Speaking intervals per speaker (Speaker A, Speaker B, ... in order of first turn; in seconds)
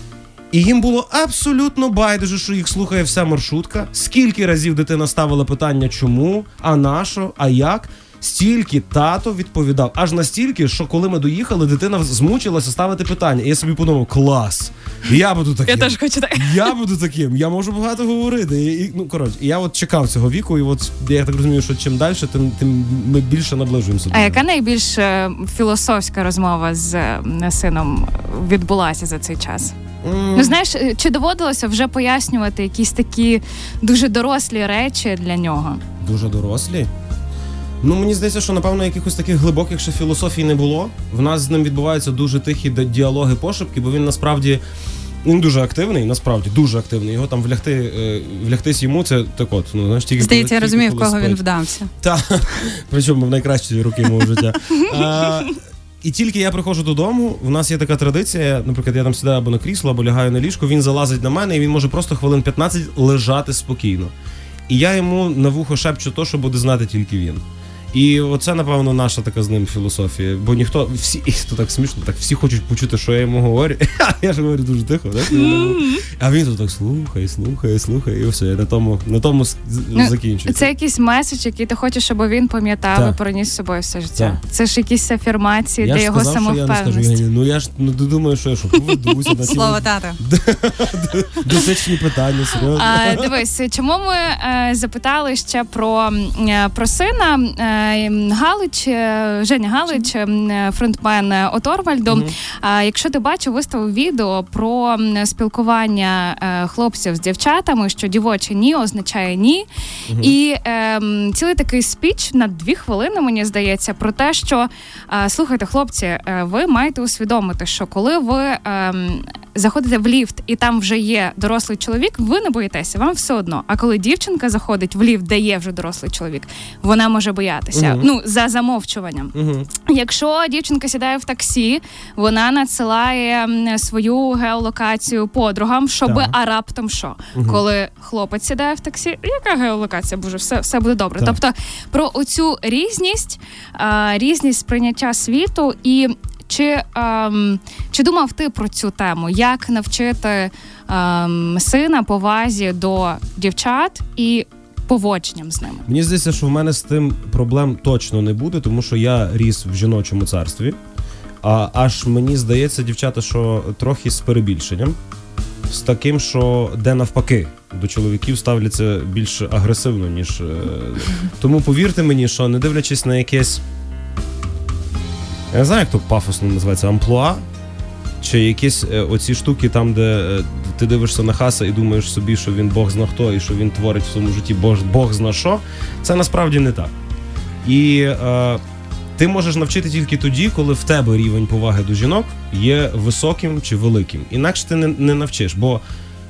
Speaker A: 0.5-24.4, 30.0-30.6, 36.0-36.9, 37.8-44.6, 45.2-51.4, 52.0-64.1, 64.7-80.7, 85.8-93.3, 102.1-102.3, 110.1-110.4, 127.7-128.1, 129.3-129.7, 136.0-136.3, 137.3-137.6, 155.8-160.8, 161.4-165.0, 165.7-173.6, 175.5-177.4, 178.2-186.9, 187.6-188.6, 189.2-195.8
Speaker B: 15.7-16.7, 24.1-29.7, 30.3-35.8, 75.3-76.0, 79.9-87.2, 92.7-155.9
Speaker C: 50.2-51.9, 89.4-90.2